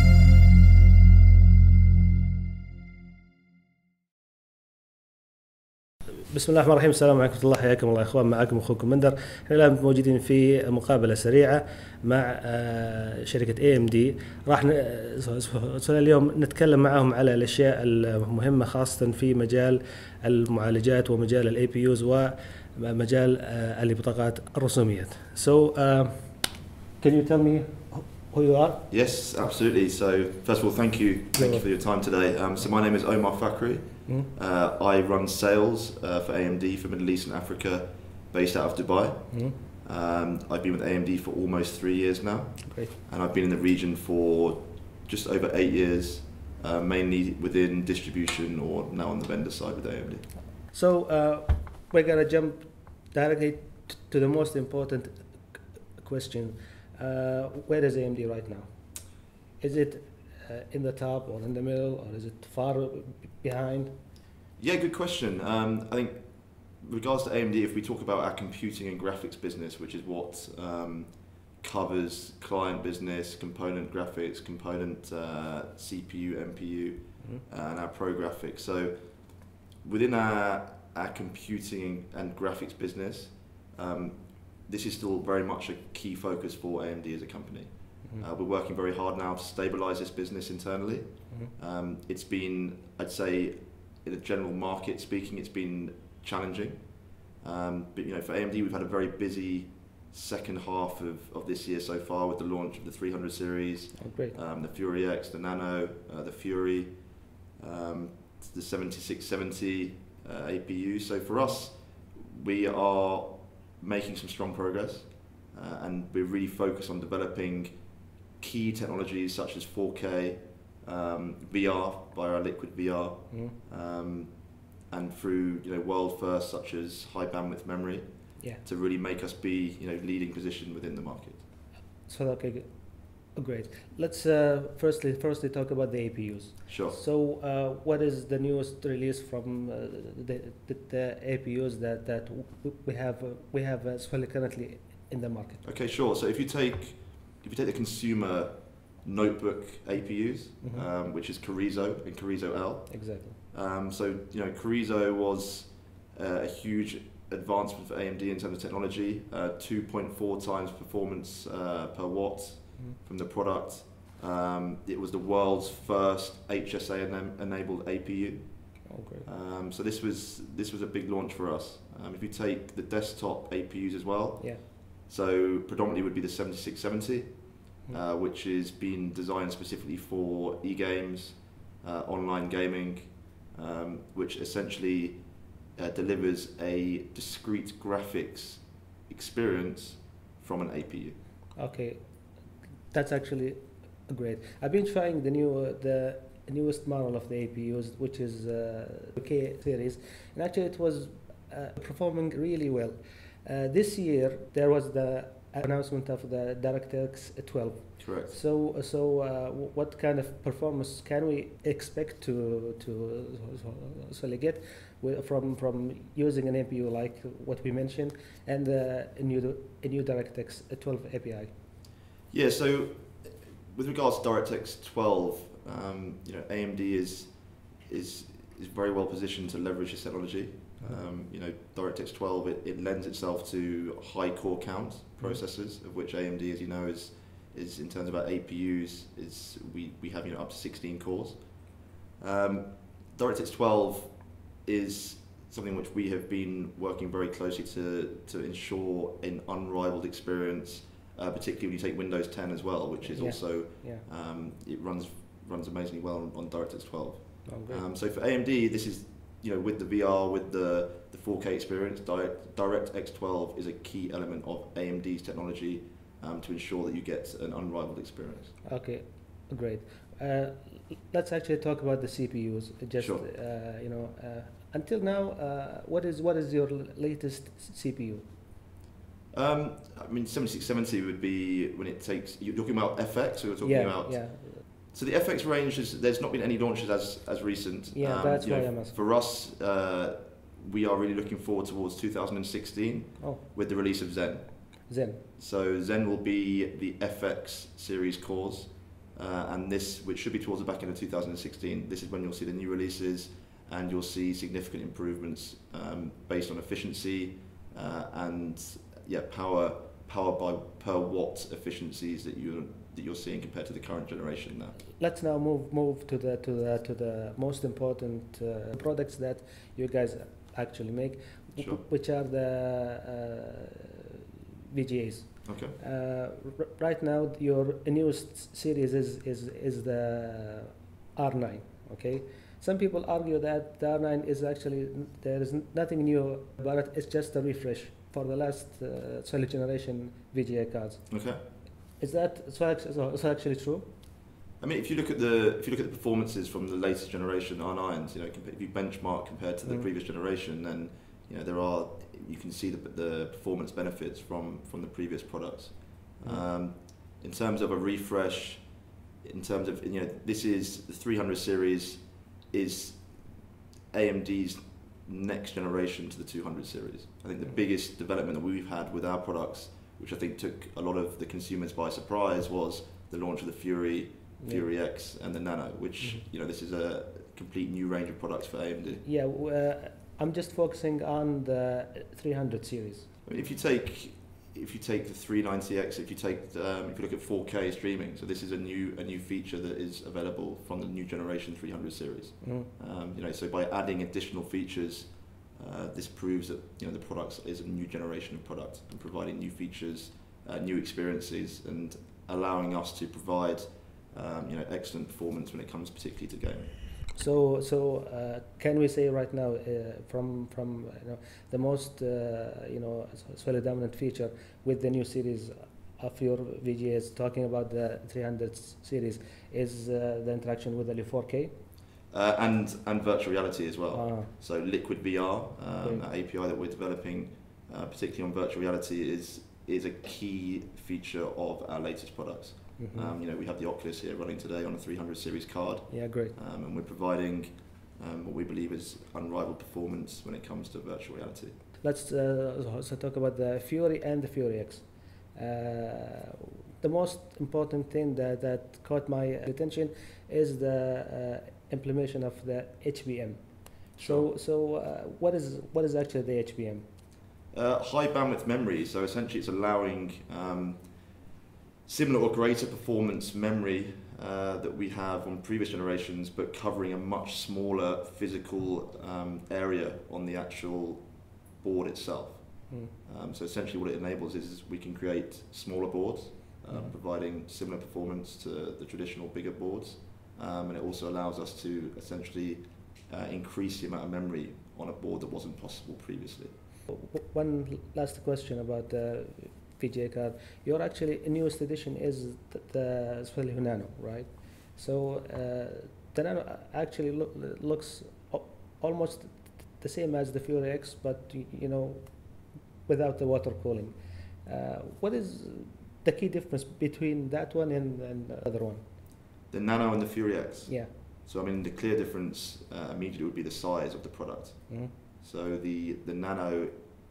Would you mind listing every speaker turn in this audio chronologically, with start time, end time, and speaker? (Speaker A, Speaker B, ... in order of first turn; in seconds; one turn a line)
Speaker A: 6.3-29.2
Speaker B: 28.9-50.3
Speaker A: 31.3-32.7
Speaker A: 39.3-39.5
Speaker A: 42.6-42.9
Speaker A: 50.7-63.9
Speaker B: 64.6-131.4
Speaker A: 104.0-104.3
Speaker A: 132.0-145.6
Speaker B: 136.7-137.0
Speaker B: 145.6-191.2
Speaker A: 150.6-150.9
Speaker A: 152.9-153.4
Speaker A: 168.9-169.3
Speaker A: 191.6-192.1
Speaker A: 192.9-221.5
Speaker B: 208.0-208.3
Speaker B: 222.3-268.5
Speaker A: 230.8-231.0
Speaker A: 253.0-254.0
Speaker A: 257.4-257.8
Speaker A: 268.6-278.3
Speaker B: 273.0-273.2
Speaker B: 279.3-294.8
Speaker A: 283.6-284.6
Speaker A: 287.9-288.9
Speaker A: 294.9-295.2
Speaker B: 295.4-314.8
Speaker A: 315.0-341.4
Speaker B: 325.4-325.8
Speaker B: 341.1-341.4
Speaker A: 342.0-343.9
Speaker B: 344.6-379.0
Speaker A: 356.2-356.5
Speaker A: 374.4-374.7
Speaker A: 376.0-376.2
Speaker A: 379.0-383.1
Speaker B: 383.2-406.9
Speaker A: 392.4-392.7
Speaker A: 407.1-421.5
Speaker B: 422.1-441.6
Speaker A: 423.9-424.3
Speaker A: 425.8-426.1
Speaker A: 432.8-433.1
Speaker A: 435.9-436.3
Speaker A: 441.8-456.9
Speaker B: 454.0-454.3
Speaker B: 457.5-461.3
Speaker B: 461.9-486.5
Speaker A: 476.7-476.9
Speaker A: 486.9-508.8
Speaker B: 509.5-516.7
Speaker A: 510.6-510.9
Speaker A: 514.7-514.9